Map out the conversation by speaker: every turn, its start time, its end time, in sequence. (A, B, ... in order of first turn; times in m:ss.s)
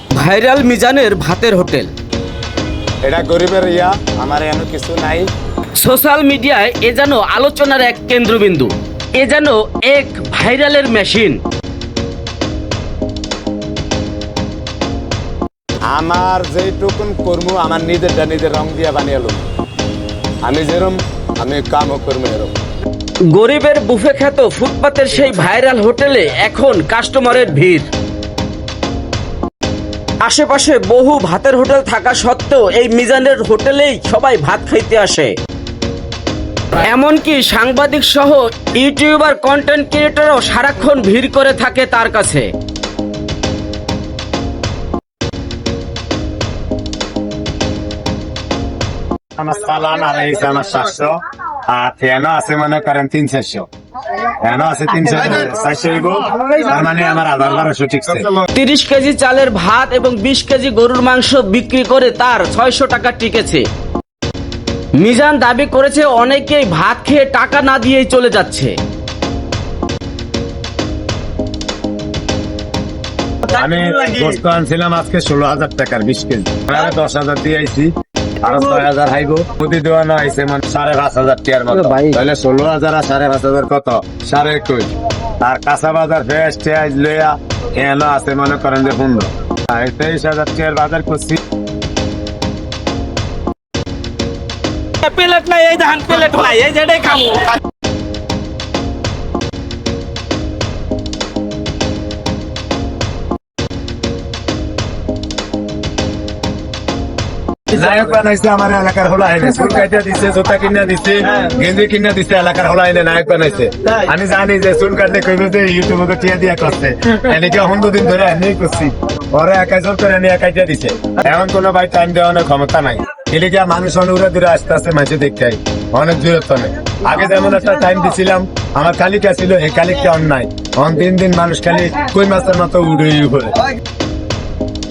0:00.2-0:01.9 A
0:03.0-0:05.3 B
0:05.8-0:11.4 A
0:15.9-0:19.4 B
0:20.4-0:22.5 B
0:23.3-0:27.9 A
0:30.2-0:35.4 A
0:36.8-0:42.5 A
0:49.4-0:58.4 B
0:58.6-1:03.7 A
1:05.0-1:08.8 A
1:13.5-1:31.4 B
1:21.7-1:22.2 A
1:35.0-1:37.5 A
1:47.7-2:13.6 B